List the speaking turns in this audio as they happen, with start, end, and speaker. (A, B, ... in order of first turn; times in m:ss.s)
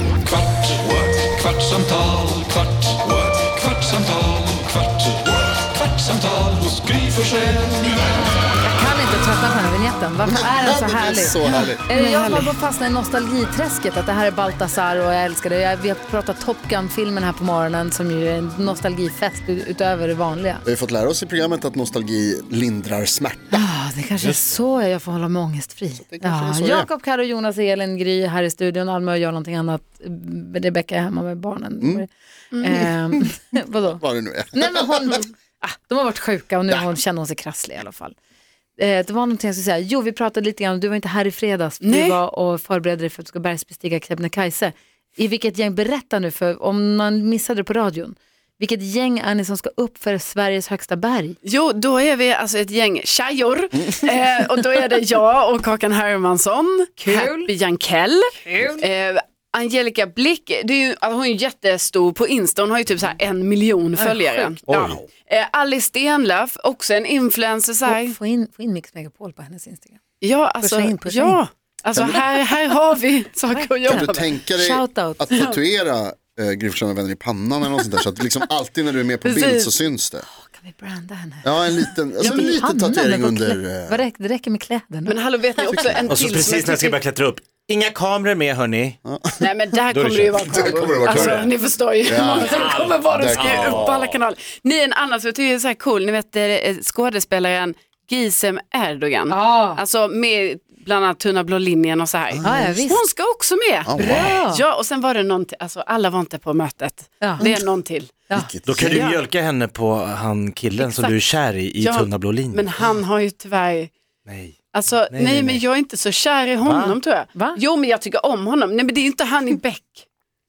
0:00.3-0:05.2 A
0:05.8-0:07.6 A
0:08.0-0:20.6 B
0:10.2-0:11.8 C
0:11.4-0:12.5 D
0:20.6-0:23.7 C
0:23.5-0:32.1 B
0:24.2-0:24.4 E
0:26.0-0:26.9 C
0:31.8-0:32.0 C
0:32.5-0:32.9 D
0:32.6-0:34.0 B
0:33.8-0:35.2 C
0:34.5-0:38.2 B
0:38.8-0:51.4 B
0:41.8-0:42.2 D
0:51.4-1:08.2 D
0:57.0-0:57.5 B
0:58.4-0:58.8 B
1:04.0-1:04.5 B
1:04.7-1:05.0 E
1:04.7-1:05.0 C
1:07.9-1:10.0 B
1:10.2-1:14.3 D
1:10.6-1:11.4 B
1:11.9-1:12.2 C
1:13.5-1:15.4 B
1:13.9-1:20.3 C
1:15.3-1:15.6 D
1:17.8-1:18.0 D
1:19.2-1:19.8 D
1:20.4-1:26.0 B
1:21.4-1:24.0 C
1:22.2-1:22.5 D
1:25.1-1:27.0 D
1:25.8-1:26.1 C
1:26.1-1:29.0 E
1:29.0-1:29.5 C
1:29.4-1:48.2 D
1:29.9-1:31.5 E
1:30.4-1:31.5 C
1:32.0-1:33.9 C
1:32.5-1:34.2 E
1:39.3-1:39.8 B
1:42.3-1:42.8 C
1:42.4-1:43.0 B
1:43.8-1:44.4 C
1:44.0-1:44.6 B
1:47.2-1:47.5 B
1:48.3-1:49.1 C
1:48.7-1:52.7 E
1:48.8-1:49.2 D
1:50.8-1:51.2 D
1:51.8-1:53.9 D
1:54.3-1:55.6 E
1:54.7-2:00.0 D
1:56.6-1:57.0 E
1:57.4-1:57.6 B